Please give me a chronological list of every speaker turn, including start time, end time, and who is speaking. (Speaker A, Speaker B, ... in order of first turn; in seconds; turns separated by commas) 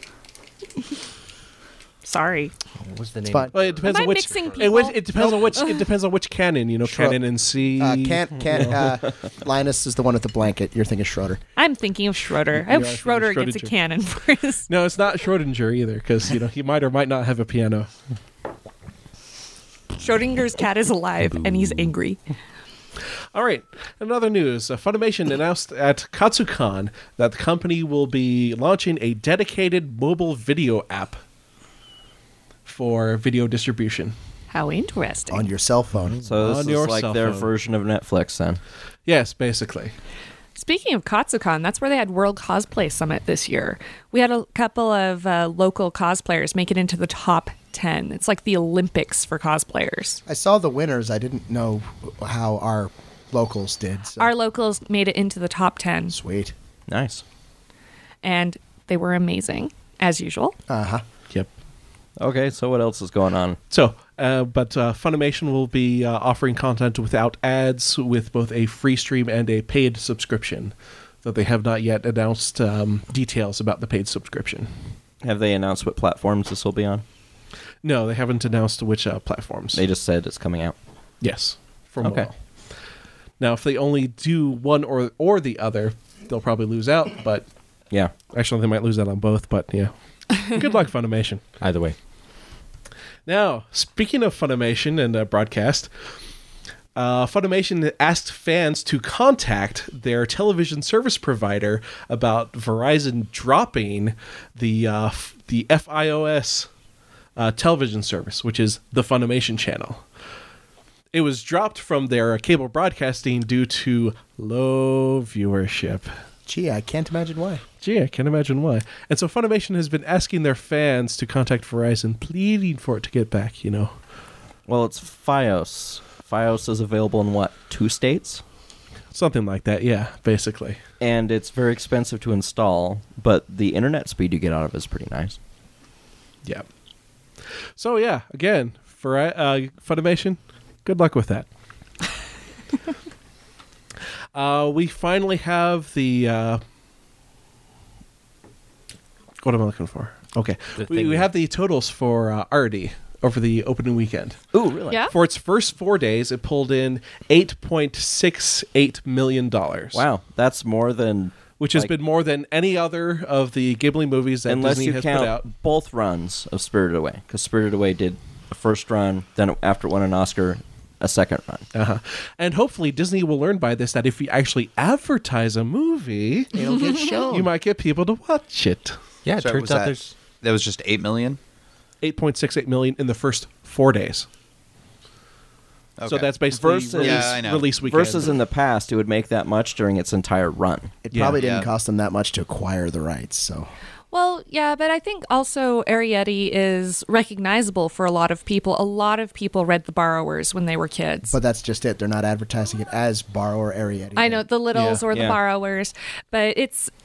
Speaker A: 2.0-2.5, Speaker B: 2.8-4.8, Speaker C: 3.3-3.5, Speaker D: 3.5-8.9, Speaker A: 3.8-5.8, Speaker C: 5.1-5.5, Speaker C: 6.9-7.2, Speaker C: 7.8-11.4, Speaker A: 11.6-14.7, Speaker D: 12.6-13.7, Speaker D: 14.7-17.9, Speaker A: 20.0-22.2, Speaker D: 23.3-31.2, Speaker D: 32.6-34.1, Speaker A: 34.5-35.5, Speaker C: 35.3-36.2, Speaker E: 36.2-38.6, Speaker D: 36.4-37.5, Speaker D: 39.0-39.9, Speaker A: 40.5-50.2, Speaker C: 50.2-54.3, Speaker A: 54.2-56.1, Speaker C: 56.1-56.5, Speaker E: 56.9-57.2, Speaker A: 58.2-60.5, Speaker C: 60.7-61.0, Speaker E: 62.2-63.6, Speaker D: 63.7-74.7, Speaker E: 75.2-77.0, Speaker D: 77.8-79.8, Speaker E: 79.7-80.7, Speaker D: 81.2-82.3, Speaker E: 82.0-82.3, Speaker D: 83.4-87.5, Speaker D: 88.3-91.4, Speaker B: 91.6-92.0, Speaker D: 93.2-95.9, Speaker D: 96.9-106.7, Speaker D: 107.3-110.0, Speaker D: 111.1-116.1, Speaker C: 116.5-117.6, Speaker D: 117.8-123.9, Speaker E: 124.7-128.4, Speaker D: 129.1-130.8, Speaker E: 131.0-135.4, Speaker D: 137.8-141.5, Speaker D: 144.3-146.6, Speaker D: 149.4-154.4, Speaker B: 150.8-151.3, Speaker E: 154.5-155.0, Speaker D: 155.1-160.0, Speaker E: 159.9-161.9, Speaker D: 161.6-165.4, Speaker E: 164.5-171.7, Speaker D: 171.7-176.5, Speaker C: 176.5-177.5, Speaker D: 177.2-179.0, Speaker B: 179.2-180.1, Speaker F: 179.4-181.4, Speaker D: 182.0-184.3, Speaker F: 186.0-187.8, Speaker D: 186.1-188.4, Speaker E: 186.5-190.9, Speaker C: 191.0-193.7, Speaker D: 191.1-191.4, Speaker F: 191.3-191.7, Speaker A: 194.1-201.3, Speaker C: 201.3-204.4, Speaker A: 204.2-206.9, Speaker D: 204.7-205.0, Speaker E: 205.1-205.4